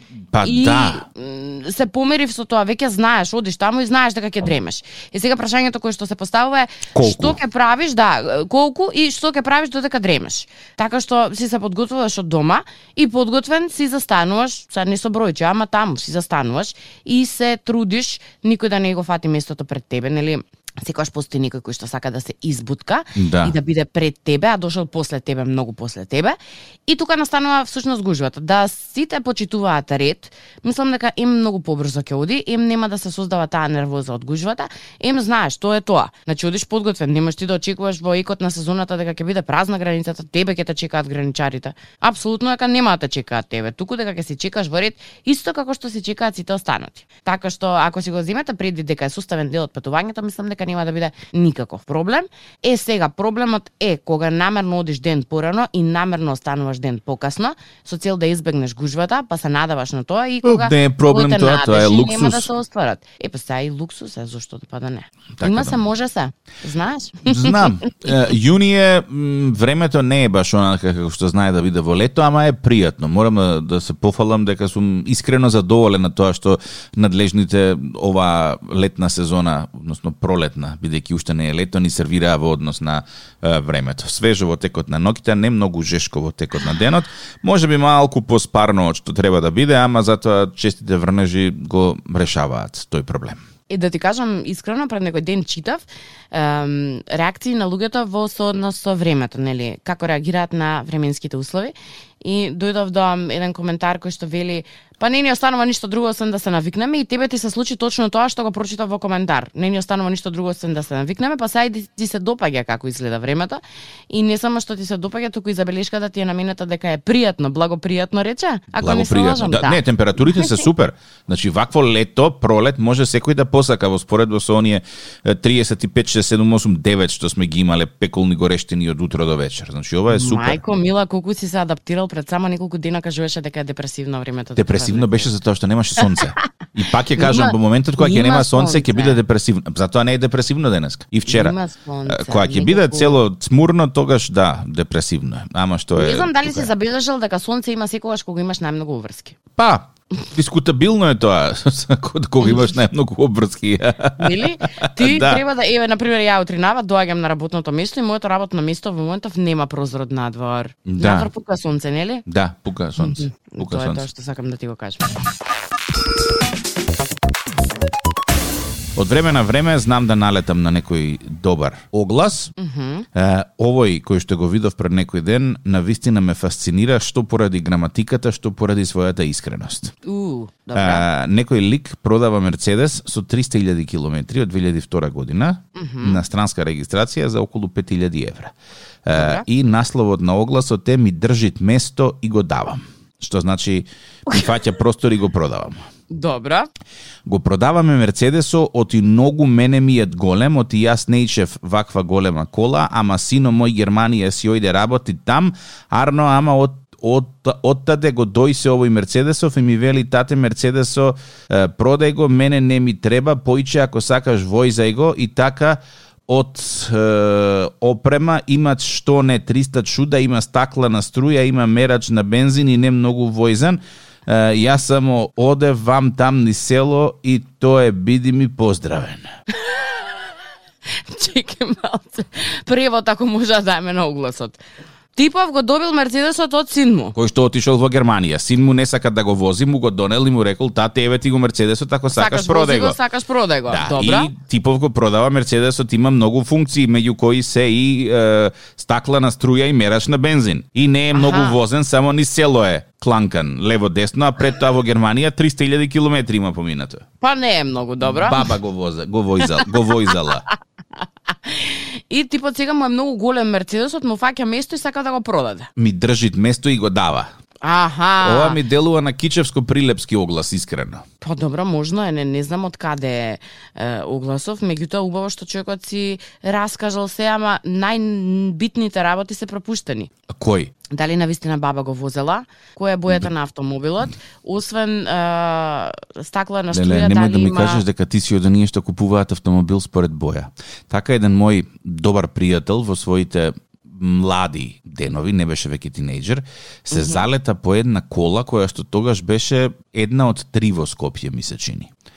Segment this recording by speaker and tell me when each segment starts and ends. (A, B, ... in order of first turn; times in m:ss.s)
0:00.3-0:01.0 A
0:00.4-0:26.4 B
0:06.9-0:07.4 A
0:23.2-0:23.5 A
0:26.9-1:07.7 B
1:00.4-1:02.5 A
1:05.4-1:05.8 A
1:07.2-1:33.4 A
1:33.7-2:00.6 B
1:58.8-2:10.6 A
2:10.1-2:15.3 B
2:14.6-2:26.7 A
2:17.2-2:19.2 B
2:21.3-2:23.2 B
2:26.0-2:29.4 B
2:29.6-2:35.4 A
2:34.2-2:42.2 B
2:40.9-2:41.3 A
2:42.3-2:44.0 A
2:43.0-2:45.1 B
2:49.0-2:52.5 A
2:52.6-2:53.1 B
2:53.1-2:59.9 A
3:00.0-3:01.0 B
3:00.8-3:08.5 A
3:05.8-3:06.2 B
3:09.0-3:15.8 A
3:09.1-3:09.4 B
3:16.1-3:16.7 B
3:17.2-3:49.3 A
3:51.1-3:54.6 B
3:55.2-3:57.2 B
3:57.2-4:03.0 A
4:02.1-4:04.3 B
4:03.7-4:17.0 A
4:11.1-4:11.6 B
4:17.2-4:18.5 B
4:18.0-4:20.5 A
4:21.4-4:25.7 B
4:25.8-4:27.3 A
4:27.6-4:28.6 B
4:28.2-4:31.0 A
4:31.2-4:40.1 B
4:40.3-4:40.7 A
4:40.9-4:47.8 B
4:46.7-5:01.9 A
4:56.9-4:57.2 B